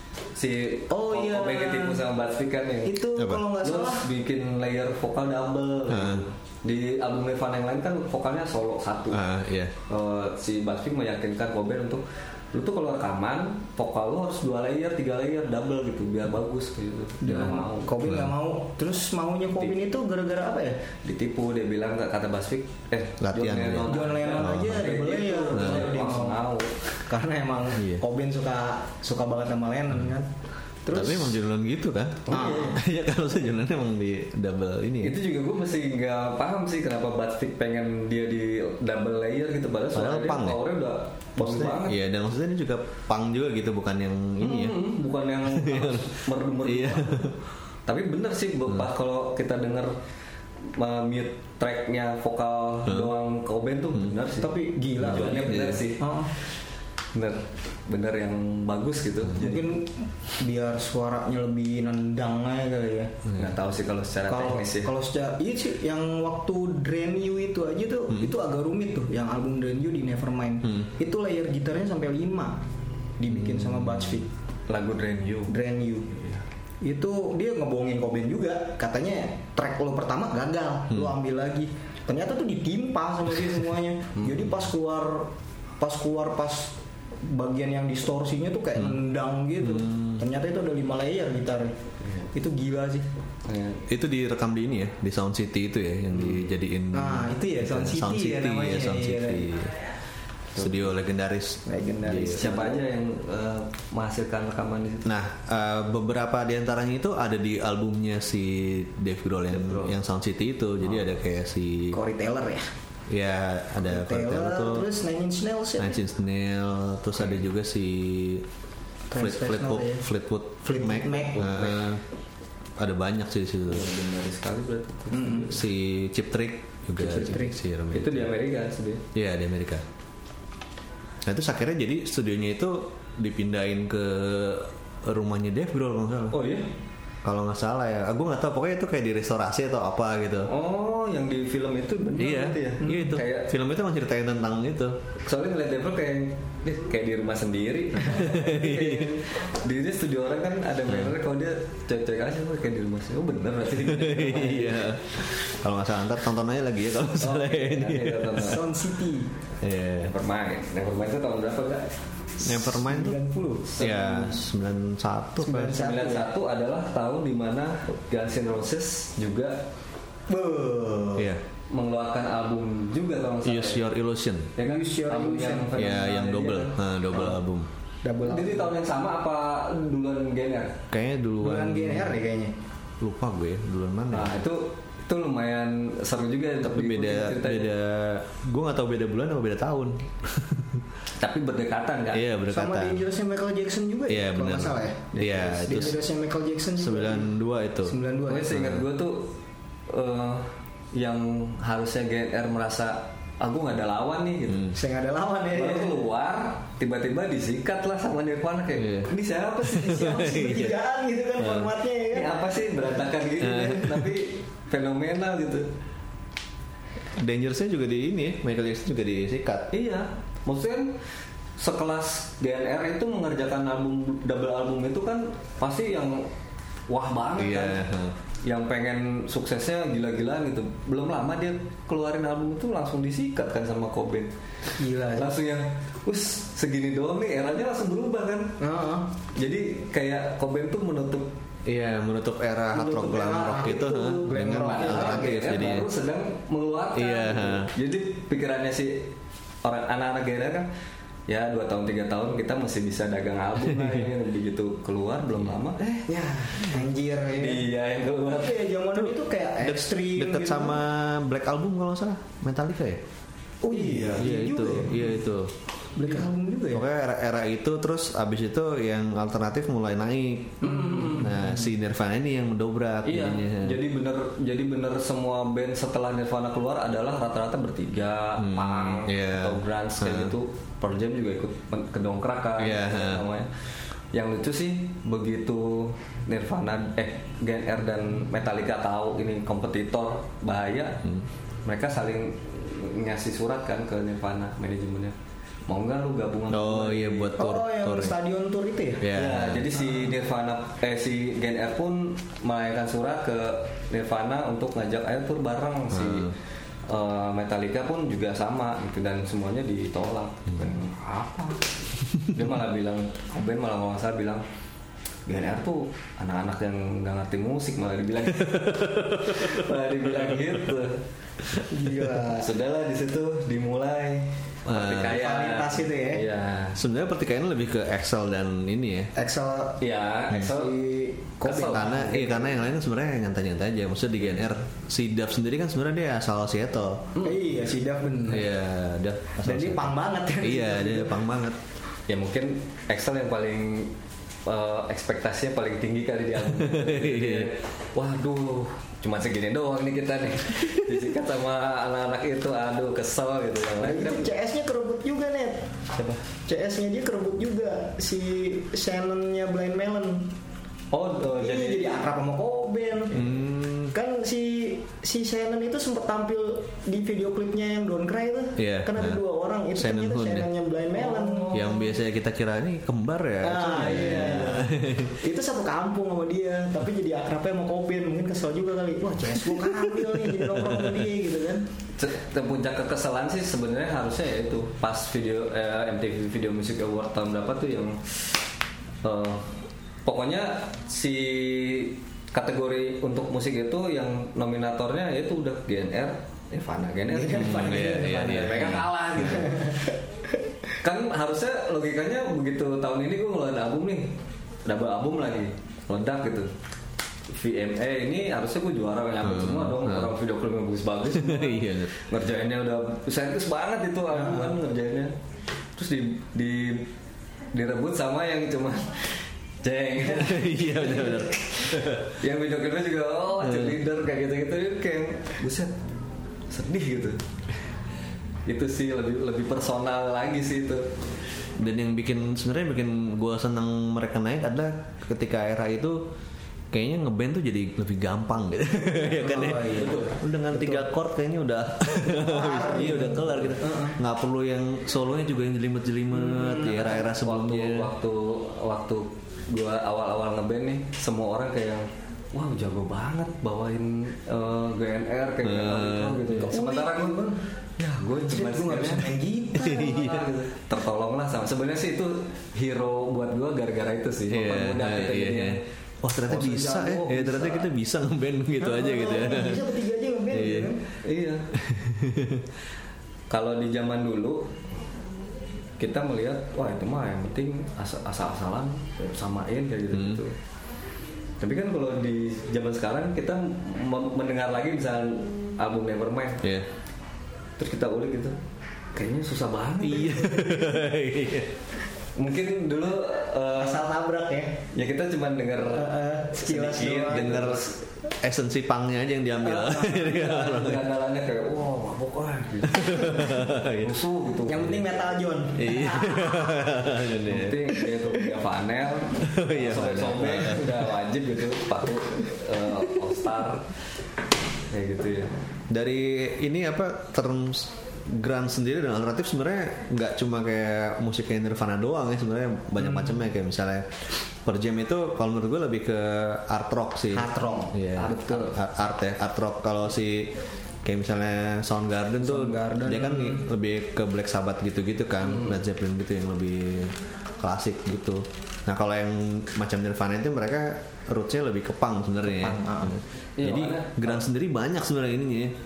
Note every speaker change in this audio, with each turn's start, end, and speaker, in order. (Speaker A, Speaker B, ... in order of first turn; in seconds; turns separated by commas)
Speaker A: 0.3-3.0, Speaker B: 0.9-2.0, Speaker B: 2.8-4.1, Speaker C: 3.1-3.4, Speaker A: 3.6-9.2, Speaker C: 5.9-6.2, Speaker C: 9.1-9.7, Speaker A: 9.9-18.0, Speaker B: 17.2-20.8, Speaker C: 18.0-18.3, Speaker A: 21.0-26.8, Speaker C: 23.2-24.9, Speaker B: 23.9-26.4, Speaker C: 25.5-25.9, Speaker B: 27.1-30.3, Speaker C: 27.8-28.0, Speaker B: 30.8-31.4, Speaker C: 30.9-35.2, Speaker A: 32.3-32.8, Speaker B: 32.3-32.8, Speaker A: 35.0-42.0, Speaker C: 39.9-40.6, Speaker C: 41.4-44.9, Speaker A: 44.4-47.3, Speaker C: 45.4-47.3, Speaker A: 47.9-49.9, Speaker A: 50.7-56.5, Speaker C: 52.9-53.1, Speaker B: 54.4-56.3, Speaker C: 55.1-55.8, Speaker A: 57.1-59.8, Speaker B: 59.4-63.1, Speaker A: 63.3-64.9, Speaker B: 64.3-72.6, Speaker B: 73.2-74.3, Speaker C: 73.3-74.2, Speaker A: 74.7-75.5, Speaker B: 75.5-76.1, Speaker A: 76.1-76.4, Speaker B: 76.8-91.8, Speaker C: 89.6-90.2, Speaker A: 92.0-92.3, Speaker B: 92.3-93.0, Speaker A: 93.5-93.8, Speaker C: 93.9-99.8, Speaker A: 96.1-96.5, Speaker B: 96.9-99.5, Speaker A: 100.5-100.9, Speaker C: 100.5-102.5, Speaker B: 101.7-102.8, Speaker A: 102.2-105.1, Speaker C: 105.0-112.0, Speaker A: 109.5-110.0, Speaker B: 111.9-112.7, Speaker C: 113.1-114.9, Speaker B: 113.8-116.0, Speaker C: 115.8-118.5, Speaker B: 119.1-120.0, Speaker C: 119.1-122.0, Speaker B: 120.6-121.5, Speaker A: 121.4-121.9, Speaker C: 122.8-123.9, Speaker A: 123.7-125.6, Speaker B: 125.1-125.5, Speaker C: 125.5-128.3, Speaker B: 127.0-127.5, Speaker A: 127.9-129.0, Speaker C: 129.1-129.8, Speaker C: 131.2-136.4, Speaker A: 136.3-136.7, Speaker C: 137.2-140.5, Speaker A: 140.5-143.5, Speaker C: 142.2-145.0, Speaker A: 145.2-155.0, Speaker C: 148.0-149.2, Speaker C: 150.9-151.1, Speaker C: 153.8-158.6, Speaker A: 157.2-158.6, Speaker B: 158.4-159.3, Speaker C: 159.6-160.1, Speaker A: 160.0-161.9, Speaker C: 162.4-163.2, Speaker B: 162.4-163.7, Speaker A: 163.7-164.4, Speaker C: 163.8-165.7, Speaker B: 165.4-166.3, Speaker A: 165.6-169.6, Speaker B: 170.3-171.3, Speaker C: 171.2-171.4, Speaker A: 171.7-173.8, Speaker C: 173.4-174.5, Speaker A: 174.6-177.3, Speaker B: 174.6-175.9, Speaker C: 175.7-177.7, Speaker B: 178.0-178.7, Speaker A: 178.2-180.8, Speaker C: 180.9-182.2, Speaker B: 181.4-182.5, Speaker C: 183.0-184.4, Speaker A: 184.1-187.7, Speaker C: 186.6-190.8, Speaker A: 191.2-192.2, Speaker C: 192.1-193.0, Speaker B: 192.5-197.3, Speaker C: 194.1-196.0, Speaker A: 195.1-195.8, Speaker C: 196.8-197.9, Speaker B: 197.8-198.6, Speaker A: 198.3-199.3, Speaker C: 198.5-198.8, Speaker A: 199.9-204.7, Speaker C: 204.5-204.8, Speaker B: 204.7-205.9, Speaker A: 205.5-210.1, Speaker C: 208.8-209.1, Speaker B: 209.6-212.4, Speaker C: 209.7-210.8, Speaker C: 211.4-211.7, Speaker A: 212.1-215.7, Speaker C: 213.4-214.1, Speaker C: 217.2-219.7, Speaker A: 219.7-221.0, Speaker A: 221.6-226.3, Speaker A: 226.9-227.8, Speaker C: 227.4-228.1, Speaker A: 228.4-234.3, Speaker B: 234.8-235.3, Speaker A: 235.0-238.6, Speaker B: 238.6-239.1, Speaker A: 239.3-241.3, Speaker C: 241.7-245.9, Speaker A: 242.8-243.3, Speaker B: 242.9-245.3, Speaker A: 244.3-249.1, Speaker C: 246.9-247.7, Speaker A: 249.6-250.7, Speaker A: 251.3-256.7, Speaker C: 253.6-254.0, Speaker B: 256.1-257.7, Speaker A: 257.3-258.7, Speaker B: 258.3-260.8, Speaker C: 258.9-263.0, Speaker B: 263.6-265.2, Speaker A: 263.8-264.1, Speaker C: 263.9-265.5, Speaker B: 265.9-266.9, Speaker C: 266.7-273.8, Speaker B: 270.6-271.6, Speaker A: 270.7-271.4, Speaker A: 273.0-283.5, Speaker C: 278.4-280.3, Speaker C: 282.6-283.3, Speaker A: 284.1-291.0, Speaker A: 291.6-295.1, Speaker A: 295.7-297.4, Speaker C: 296.5-298.2, Speaker B: 297.4-299.1, Speaker C: 299.0-299.7, Speaker A: 299.1-306.3, Speaker C: 305.9-306.3, Speaker A: 306.9-311.6, Speaker A: 312.3-314.4, Speaker A: 315.3-321.0, Speaker C: 318.4-319.6, Speaker C: 320.1-320.4, Speaker B: 321.7-322.5, Speaker A: 322.4-326.8, Speaker C: 324.7-325.2, Speaker B: 325.1-326.2, Speaker C: 326.7-329.1, Speaker B: 329.1-332.1, Speaker A: 329.8-330.8, Speaker A: 331.4-332.6, Speaker C: 331.7-337.1, Speaker B: 337.2-338.5, Speaker C: 338.3-341.6, Speaker B: 339.4-341.2, Speaker A: 342.1-343.9, Speaker A: 344.4-354.3, Speaker C: 346.5-347.5, Speaker B: 353.8-355.7, Speaker A: 355.9-356.2, Speaker B: 356.5-360.3, Speaker A: 360.9-362.0, Speaker B: 361.2-363.1, Speaker C: 363.1-363.9, Speaker B: 363.9-371.6, Speaker C: 368.6-369.2, Speaker C: 369.7-370.5, Speaker A: 370.9-371.9, Speaker C: 371.5-375.2, Speaker B: 373.4-381.6, Speaker C: 379.5-381.1, Speaker A: 382.0-388.0, Speaker A: 389.0-399.9, Speaker B: 397.1-398.1, Speaker C: 397.3-399.5, Speaker B: 399.4-399.9, Speaker A: 400.8-404.1, Speaker A: 404.6-406.5, Speaker A: 407.3-415.1, Speaker C: 409.2-410.1, Speaker C: 411.1-411.9, Speaker B: 414.1-414.5, Speaker A: 415.8-416.9, Speaker A: 417.5-425.7, Speaker C: 420.1-422.1, Speaker C: 423.4-423.8, Speaker A: 426.5-427.2, Speaker A: 428.4-430.9, Speaker C: 431.6-436.0, Speaker C: 436.7-447.9, Speaker B: 439.1-440.9, Speaker A: 439.6-440.1, Speaker B: 442.1-444.0, Speaker B: 446.1-446.9, Speaker A: 446.7-457.2, Speaker C: 455.4-456.4, Speaker B: 456.4-457.4, Speaker A: 457.8-459.2, Speaker B: 458.3-460.3, Speaker C: 459.6-460.3, Speaker A: 459.8-465.6, Speaker C: 464.3-469.7, Speaker B: 466.3-467.6, Speaker B: 468.6-470.8, Speaker C: 470.3-470.7, Speaker A: 471.0-471.5, Speaker C: 471.5-472.5, Speaker A: 473.3-474.5, Speaker A: 475.8-480.3, Speaker C: 479.9-480.2, Speaker A: 481.4-486.4, Speaker C: 486.4-486.7, Speaker A: 487.6-488.4, Speaker A: 488.9-490.6, Speaker C: 489.8-491.5, Speaker A: 492.1-493.9, Speaker B: 493.6-494.6, Speaker A: 494.7-497.8, Speaker B: 495.7-497.4, Speaker C: 497.0-497.7, Speaker C: 498.2-500.9, Speaker B: 499.4-500.1, Speaker A: 499.6-505.2, Speaker C: 502.6-504.0, Speaker B: 504.4-506.7, Speaker C: 505.6-507.6, Speaker A: 507.3-513.7, Speaker C: 509.2-510.9, Speaker A: 514.7-515.3, Speaker C: 515.7-523.9, Speaker C: 524.4-530.3, Speaker B: 527.1-527.8, Speaker A: 527.9-528.6, Speaker C: 530.8-545.5, Speaker B: 532.2-533.4, Speaker A: 535.2-535.6, Speaker B: 542.2-543.0, Speaker A: 543.4-544.2